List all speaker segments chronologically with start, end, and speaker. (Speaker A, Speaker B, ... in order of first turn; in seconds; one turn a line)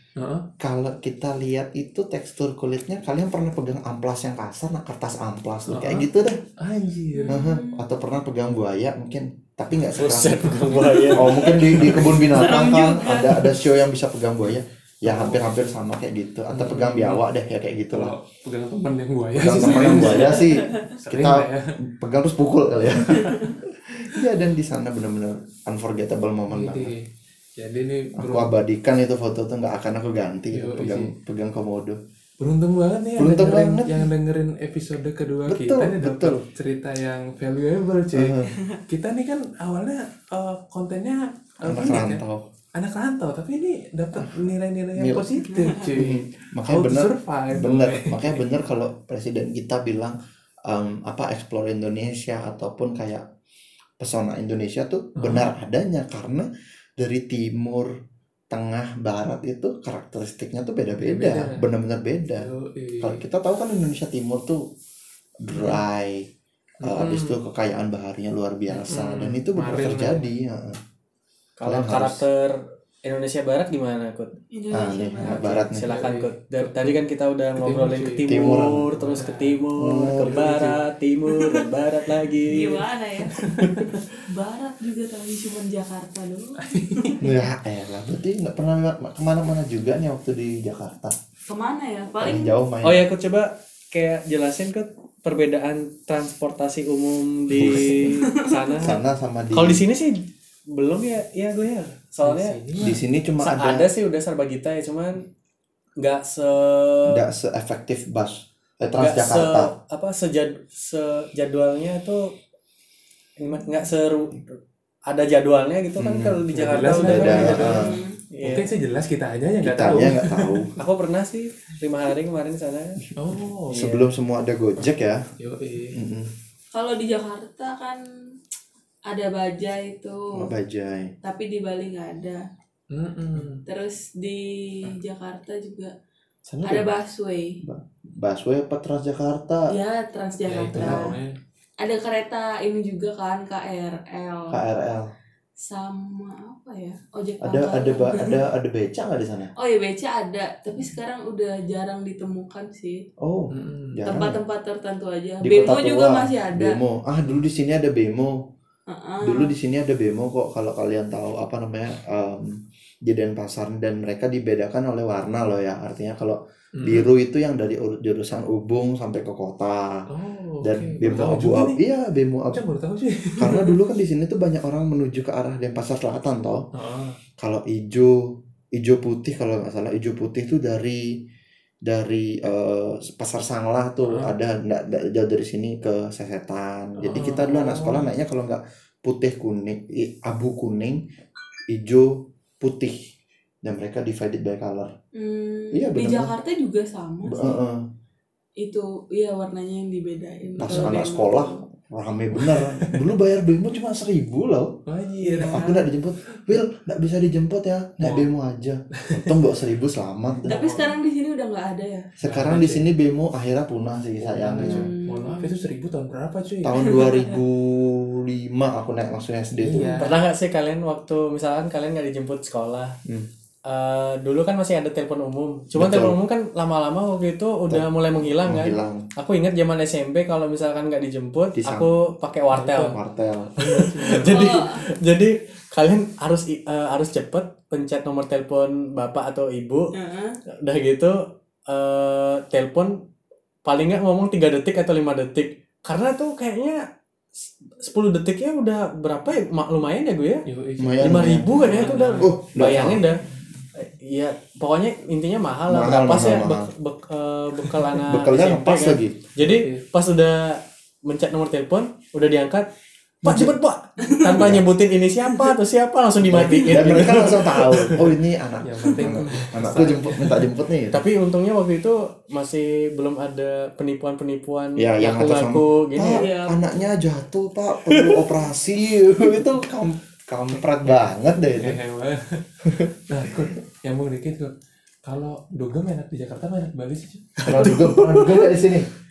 Speaker A: 0.2-0.5
Speaker B: 0.6-6.4
Speaker A: 5.7-6.1
Speaker A: 6.6-7.4
Speaker C: 7.1-7.8
Speaker B: 7.3-18.1
Speaker D: 9.9-12.2
Speaker C: 11.9-13.6
Speaker A: 15.1-15.5
Speaker A: 16.5-17.2
Speaker A: 17.9-21.8
Speaker B: 19.4-26.9
Speaker C: 20.2-20.9
Speaker A: 23.1-23.5
Speaker A: 26.5-28.5
Speaker B: 28.2-32.0
Speaker A: 30.5-31.1
Speaker A: 32.4-42.2
Speaker B: 33.2-34.1
Speaker B: 35.5-36.4
Speaker B: 38.1-38.6
Speaker C: 38.5-38.8
Speaker B: 41.6-42.4
Speaker A: 42.8-48.4
Speaker B: 45.0-53.2
Speaker C: 45.5-45.8
Speaker B: 54.0-56.5
Speaker A: 55.2-55.5
Speaker B: 57.0-57.9
Speaker B: 58.5-62.5
Speaker A: 61.0-61.6
Speaker A: 62.4-63.2
Speaker B: 63.0-64.7
Speaker B: 65.4-66.3
Speaker A: 65.5-65.8
Speaker A: 66.8-67.4
Speaker B: 66.8-70.8
Speaker A: 68.7-70.3
Speaker D: 71.6-74.3
Speaker B: 71.6-72.2
Speaker C: 74.5-75.5
Speaker B: 74.7-75.9
Speaker D: 75.2-84.0
Speaker A: 75.5-76.9
Speaker A: 77.6-79.6
Speaker B: 78.3-78.9
Speaker B: 79.8-80.6
Speaker A: 80.2-80.8
Speaker C: 81.3-81.7
Speaker C: 82.4-83.4
Speaker A: 83.3-83.9
Speaker C: 84.3-87.4
Speaker A: 86.6-87.2
Speaker B: 87.2-91.2
Speaker C: 91.5-92.6
Speaker B: 92.2-93.1
Speaker D: 92.8-99.0
Speaker B: 97.5-98.2
Speaker A: 97.7-98.0
Speaker C: 98.2-98.8
Speaker B: 98.8-99.8
Speaker D: 99.5-102.6
Speaker A: 102.2-103.0
Speaker B: 102.8-103.9
Speaker D: 103.4-105.2
Speaker D: 106.0-107.2
Speaker B: 107.1-109.7
Speaker D: 109.0-112.3
Speaker D: 113.4-118.7
Speaker B: 116.0-116.5
Speaker A: 116.5-117.9
Speaker B: 117.0-118.0
Speaker C: 117.5-118.2
Speaker A: 118.4-120.7
Speaker B: 119.6-120.7
Speaker D: 120.8-123.0
Speaker A: 123.2-123.8
Speaker D: 123.7-124.0
Speaker B: 123.7-125.2
Speaker A: 125.4-126.0
Speaker B: 125.9-126.3
Speaker C: 126.7-128.0
Speaker C: 129.1-130.5
Speaker B: 130.3-131.1
Speaker C: 131.2-132.4
Speaker A: 132.9-133.6
Speaker C: 133.7-135.9
Speaker B: 136.5-136.9
Speaker C: 136.6-137.6
Speaker B: 137.6-139.7
Speaker C: 139.7-141.2
Speaker A: 140.5-141.4
Speaker B: 140.7-141.2
Speaker C: 141.8-144.6
Speaker B: 144.5-145.1
Speaker C: 145.6-148.4
Speaker B: 147.4-149.5
Speaker C: 149.6-153.1
Speaker B: 153.2-154.4
Speaker A: 153.5-154.0
Speaker C: 154.1-156.8
Speaker B: 155.4-158.3
Speaker C: 158.9-159.5
Speaker B: 159.2-170.1
Speaker A: 166.8-167.1
Speaker A: 170.1-171.8
Speaker B: 170.6-172.6
Speaker A: 172.5-173.8
Speaker B: 173.4-176.7
Speaker A: 176.7-177.2
Speaker B: 177.4-178.2
Speaker B: 178.7-181.1
Speaker B: 181.8-191.0
Speaker A: 184.1-184.3
Speaker A: 187.0-188.1
Speaker B: 191.7-193.0
Speaker B: 193.6-194.9
Speaker C: 195.1-197.6
Speaker B: 195.7-196.3
Speaker B: 197.2-197.8
Speaker C: 198.6-201.6
Speaker A: 200.6-201.0
Speaker B: 200.6-204.8
Speaker A: 202.4-203.0
Speaker A: 204.9-205.7
Speaker C: 205.2-205.8
Speaker B: 205.4-210.7
Speaker A: 208.0-208.3
Speaker A: 209.0-209.3
Speaker C: 210.5-212.1
Speaker B: 212.2-214.9
Speaker A: 212.2-212.9
Speaker A: 214.2-216.8
Speaker C: 214.6-215.6
Speaker B: 216.6-220.0
Speaker C: 216.8-217.4
Speaker A: 219.6-220.2
Speaker D: 220.0-223.0
Speaker D: 223.7-233.0
Speaker B: 225.7-226.2
Speaker B: 227.7-229.1
Speaker B: 231.6-231.9
Speaker A: 232.5-233.0
Speaker B: 232.8-233.8
Speaker A: 233.6-234.5
Speaker D: 233.7-239.9
Speaker C: 234.3-234.8
Speaker C: 239.9-240.4
Speaker D: 240.5-243.0
Speaker D: 243.7-246.8
Speaker D: 247.4-250.4
Speaker A: 250.5-252.8
Speaker B: 250.8-253.1
Speaker D: 251.0-253.2
Speaker D: 253.8-262.7
Speaker B: 255.7-256.7
Speaker B: 258.1-259.2
Speaker A: 259.4-259.8
Speaker D: 263.2-268.1
Speaker A: 263.3-263.5
Speaker C: 264.1-264.6
Speaker B: 264.3-264.7
Speaker B: 266.2-271.0
Speaker A: 266.4-267.2
Speaker A: 268.6-270.4
Speaker D: 270.9-276.3
Speaker B: 274.8-281.8
Speaker C: 276.1-276.6
Speaker D: 277.8-278.3
Speaker A: 281.6-282.5
Speaker B: 282.6-282.9
Speaker A: 283.1-284.5
Speaker A: 285.0-287.9
Speaker B: 287.5-288.9
Speaker D: 287.5-288.4